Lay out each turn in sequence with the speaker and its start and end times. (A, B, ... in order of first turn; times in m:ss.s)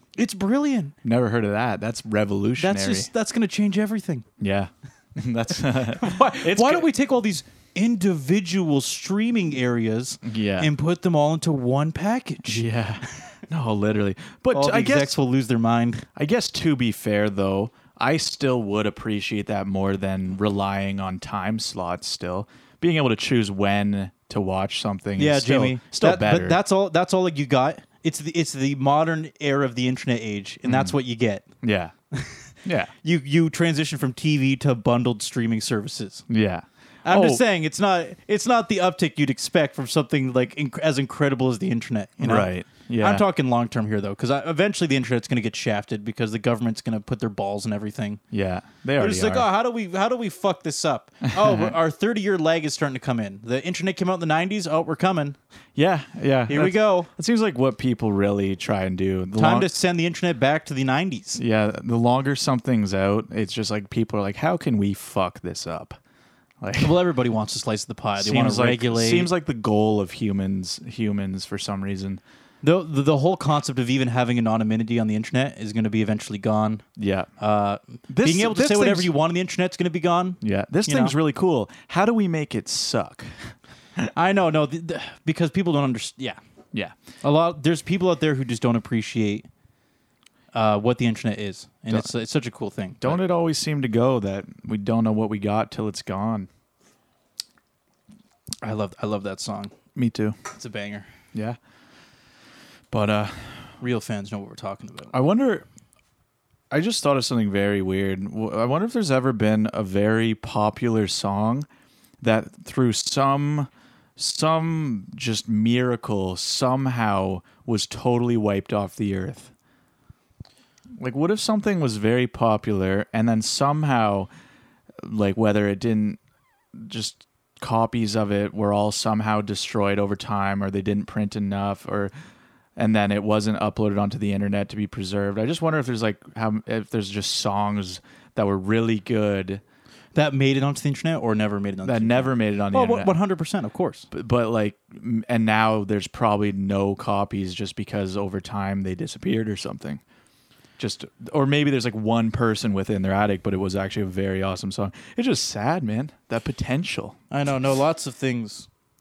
0:00.2-0:01.0 A
0:01.0-0:03.1 B
0:02.6-0:04.2 A
0:04.4-0:06.9 B
0:06.0-0:12.7 A
0:10.2-0:10.7 B
0:12.5-0:15.2 B
0:14.5-0:16.0 A
0:16.2-0:26.6 B
0:25.2-0:31.4 A
0:30.6-0:31.0 B
0:31.6-0:31.9 B
0:32.1-0:36.2 A
0:32.6-0:32.9 B
0:36.3-0:37.4 B
0:37.0-0:48.2 A
0:42.2-0:43.2 B
0:48.3-0:49.5 B
0:49.0-0:55.4 A
0:51.3-0:51.8 B
0:55.8-0:59.7 B
0:56.5-0:57.1 A
0:59.4-1:01.4 A
1:01.4-1:06.0 B
1:06.6-1:07.0 B
1:06.8-1:09.3 A
1:08.2-1:12.2 B
1:12.6-1:16.8 A
1:17.0-1:17.3 B
1:17.4-1:21.1 A
1:18.1-1:19.1 B
1:20.4-1:24.1 B
1:24.2-1:26.4 A
1:27.2-1:29.5 A
1:30.5-1:33.2 A
1:33.0-1:36.5 B
1:38.6-1:39.8 A
1:40.0-1:40.4 B
1:40.5-1:41.1 A
1:42.9-1:43.7 B
1:43.8-1:45.1 A
1:45.1-1:45.7 B
1:46.7-1:51.7 B
1:52.2-1:59.5 B
2:01.0-2:04.3 B
2:05.0-2:06.2 B
2:06.8-2:12.1 B
2:12.8-2:19.6 B
2:20.1-2:24.1 A
2:21.8-2:23.1 B
2:24.1-2:30.0 B
2:30.8-2:37.2 B
2:37.3-2:38.7 A